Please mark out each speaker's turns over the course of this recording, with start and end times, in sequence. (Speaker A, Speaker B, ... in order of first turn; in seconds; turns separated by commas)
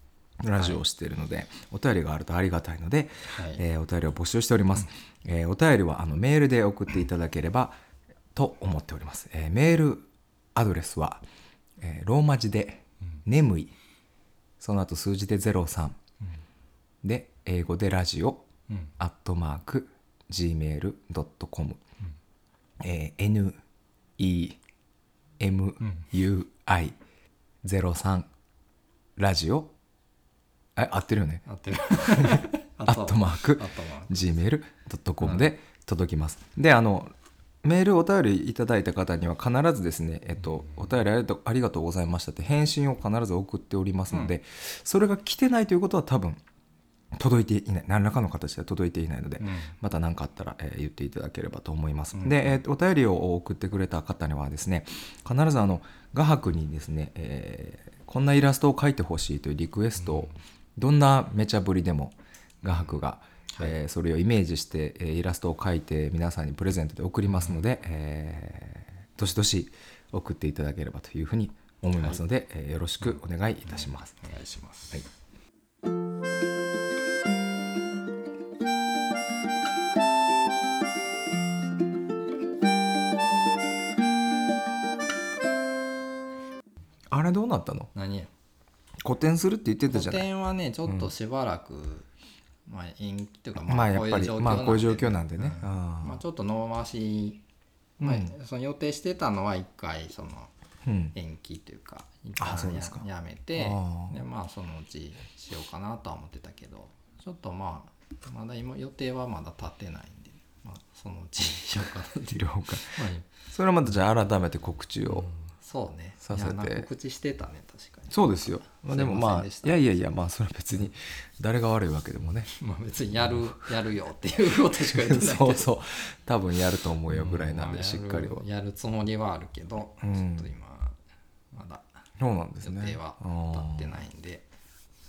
Speaker A: 0.4-7.8, Speaker B: 0.5-0.8, Speaker B: 3.3-3.6, Speaker A: 8.3-11.2, Speaker A: 11.8-13.7, Speaker A: 14.6-16.0, Speaker A: 17.0-18.4, Speaker A: 19.0-21.8, Speaker A: 22.8-23.6, Speaker A: 24.2-24.6, Speaker A: 25.4-27.0, Speaker B: 25.8-26.1, Speaker A: 27.6-28.3, Speaker A: 29.2-29.7, Speaker A: 30.8-37.1, Speaker B: 31.4-34.3, Speaker B: 35.2-35.5, Speaker A: 37.6-46.4, Speaker B: 40.4-40.9, Speaker A: 47.1-74.2, Speaker B: 49.4-49.7, Speaker B: 52.1-52.6, Speaker B: 60.0-60.4, Speaker B: 63.5-63.8, Speaker B: 67.3-67.6, Speaker B: 72.0-72.2, Speaker B: 73.0-75.1, Speaker A: 87.1-87.9, Speaker B: 87.9-88.3, Speaker A: 89.0-90.2, Speaker B: 89.9-92.1, Speaker B: 92.7-97.4, Speaker A: 93.7-96.2, Speaker B: 98.0-100.5, Speaker A: 98.0-98.3, Speaker A: 100.8-101.1, Speaker B: 101.1-113.3, Speaker A: 102.4-104.2, Speaker A: 112.3-113.0, Speaker A: 113.5-115.3, Speaker B: 115.0-119.8, Speaker A: 116.2-116.9, Speaker A: 118.1-122.5, Speaker B: 122.5-125.7, Speaker A: 123.2-123.5, Speaker A: 124.8-128.4, Speaker B: 127.1-131.0, Speaker A: 130.0-130.5, Speaker B: 131.5-131.9, Speaker A: 132.2-134.0, Speaker B: 132.6-134.4